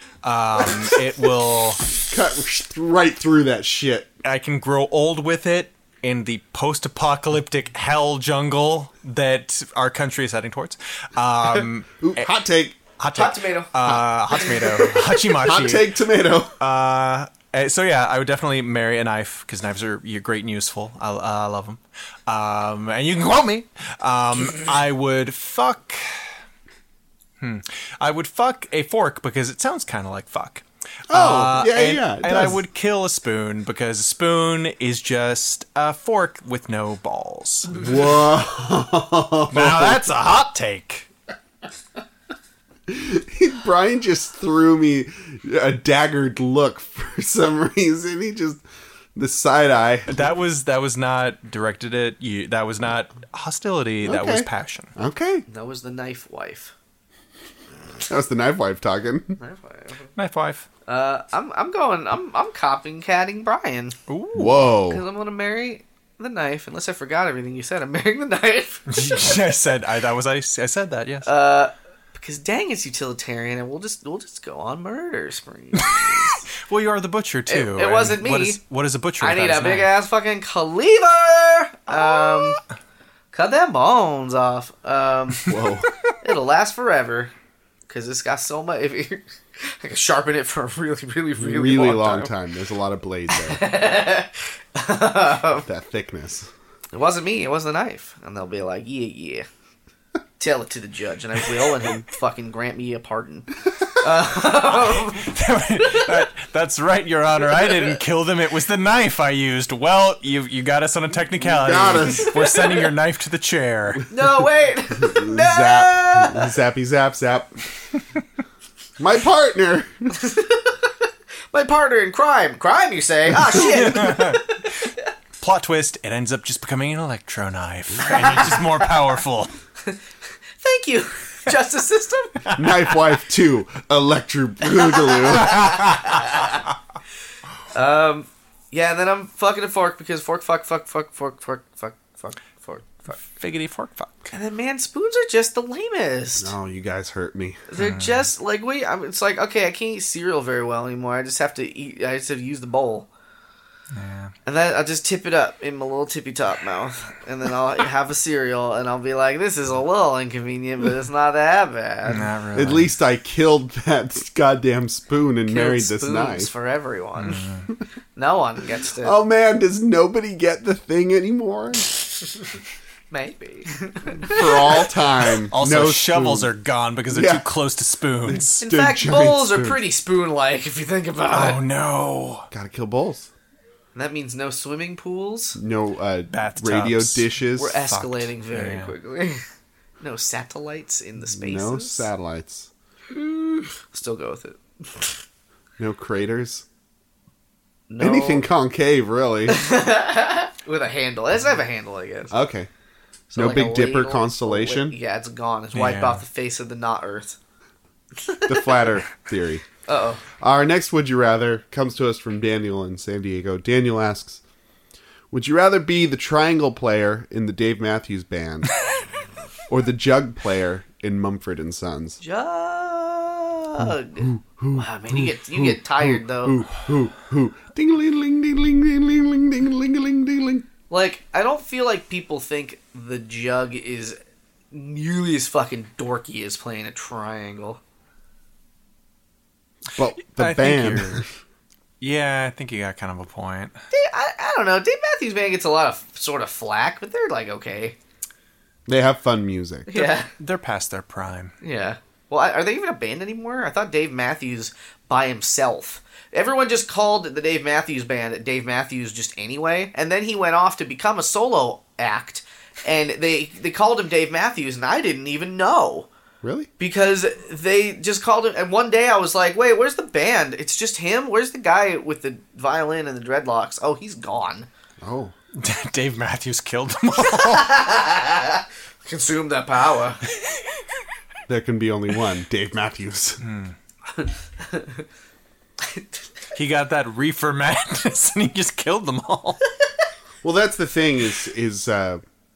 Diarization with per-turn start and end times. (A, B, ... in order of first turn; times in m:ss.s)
0:00.2-0:01.8 A
0:02.0-0:04.1 B
0:04.2-0:12.3 A
0:12.0-0:12.8 B
0:13.0-0:15.9 A
0:13.2-0:13.7 C
0:15.4-0:16.6 B
0:16.6-0:26.3 A
0:27.4-0:37.8 A
0:31.1-0:32.6 B
0:37.7-0:40.0 B
0:39.5-0:41.1 A
0:42.9-0:48.6 B
0:49.2-0:50.2 B
0:50.1-0:54.9 A
0:54.0-0:55.4 B
0:55.5-0:56.7 C
0:58.1-0:59.4 B
0:59.4-1:00.1 C
1:00.2-1:00.7 A
1:00.9-1:04.0 C
1:04.1-1:04.7 A
1:04.3-1:05.0 B
1:04.9-1:09.1 C
1:08.9-1:11.3 A
1:11.3-1:16.4 C
1:15.8-1:19.9 A
1:17.5-1:18.6 C
1:19.2-1:22.6 C
1:22.0-1:22.5 A
1:23.3-1:25.6 C
1:25.5-1:25.9 B
1:26.2-1:27.3 C
1:27.9-1:32.3 C
1:31.4-1:33.7 B
1:33.3-1:35.7 C
1:35.6-1:36.5 B
1:36.9-1:39.5 C
1:40.4-1:45.3 C
1:44.6-1:54.1 A
1:51.4-1:52.3 B
1:52.2-1:52.9 C
1:54.1-1:56.5 C
1:55.0-1:57.6 B
1:59.0-2:00.1 B
2:00.2-2:00.8 C
2:01.5-2:05.0 C
2:03.5-2:09.5 A
2:08.1-2:08.7 C
2:10.6-2:12.5 C
2:12.4-2:12.8 A
2:12.6-2:15.8 B
2:14.8-2:16.6 C
2:15.5-2:16.2 A
2:17.7-2:23.2 C
2:23.2-2:24.3 A
2:24.3-2:26.5 C
2:26.4-2:27.6 B
2:27.7-2:33.1 C
2:27.8-2:28.3 A
2:33.9-2:34.3 A
2:34.5-2:42.3 C
2:42.1-2:42.9 A
2:42.6-2:46.5 B
2:45.5-2:47.4 C
2:47.2-2:47.7 A
2:48.2-2:49.2 C
2:49.0-2:51.9 B
2:53.1-2:54.9 C
2:54.2-2:56.5 B
2:55.5-2:58.6 A
2:57.1-2:57.5 B
2:58.3-2:59.8 B
2:58.6-3:01.6 C
3:01.3-3:02.5 A
3:02.5-3:03.3 B
3:04.0-3:05.6 C
3:05.6-3:07.8 B
3:06.3-3:08.9 A
3:07.6-3:09.4 C
3:10.0-3:12.1 C
3:11.4-3:12.7 B
3:13.1-3:15.2 C
3:15.8-3:16.6 B
3:17.9-3:18.4 C
3:18.0-3:19.6 B
3:19.5-3:22.3 C
3:22.3-3:22.7 B
3:23.3-3:27.4 C
3:23.3-3:25.0 B
3:25.7-3:26.2 A
3:28.2-3:28.9 C
3:28.5-3:29.6 B
3:29.9-3:30.2 C
3:30.4-3:34.4 B
3:35.3-3:38.8 B
3:39.7-3:42.2 B
3:42.2-3:46.6 C
3:43.8-3:50.7 B
3:50.9-3:54.2 C
3:54.7-3:57.8 C
3:59.9-4:01.3 B
4:00.3-4:01.2 A
4:02.0-4:03.8 A
4:03.9-4:08.0 C
4:08.9-4:10.0 B
4:09.9-4:10.3 C
4:10.3-4:11.6 A
4:11.6-4:26.1 C
4:26.4-4:26.7 B
4:26.8-4:34.7 C
4:35.0-4:35.3 B
4:35.6-4:37.8 A
4:37.3-4:40.2 C
4:41.5-4:43.4 B
4:43.4-4:43.8 A
4:44.2-4:45.0 C
4:46.6-4:49.6 A
4:50.4-4:52.2 B